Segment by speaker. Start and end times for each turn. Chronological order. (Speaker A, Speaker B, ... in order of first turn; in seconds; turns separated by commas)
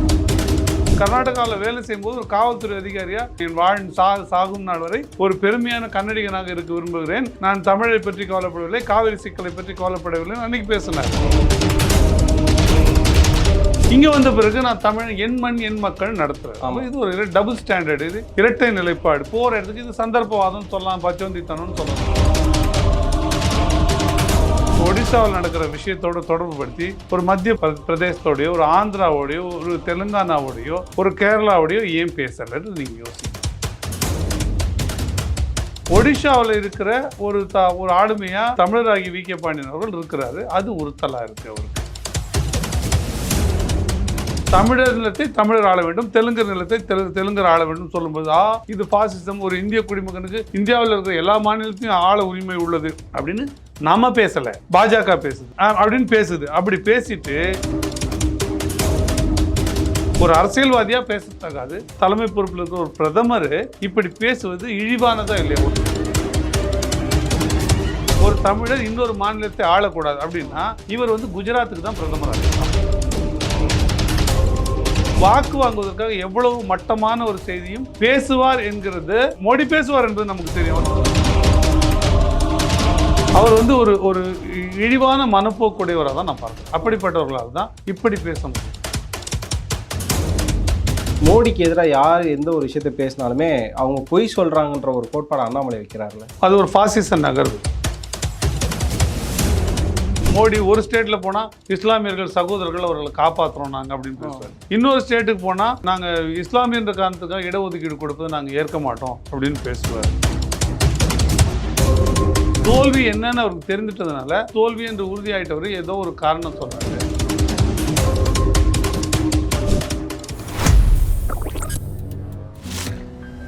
Speaker A: 1.0-11.3, Speaker A: 13.9-22.3, Speaker B: 16.6-16.9, Speaker A: 24.8-33.4, Speaker A: 35.9-41.9, Speaker A: 44.5-57.4, Speaker A: 60.2-66.1, Speaker A: 68.2-72.7, Speaker A: 75.2-81.0, Speaker A: 83.4-88.8, Speaker B: 91.3-96.3, Speaker A: 96.4-97.6, Speaker A: 100.3-110.2, Speaker B: 104.2-104.5, Speaker A: 112.6-117.0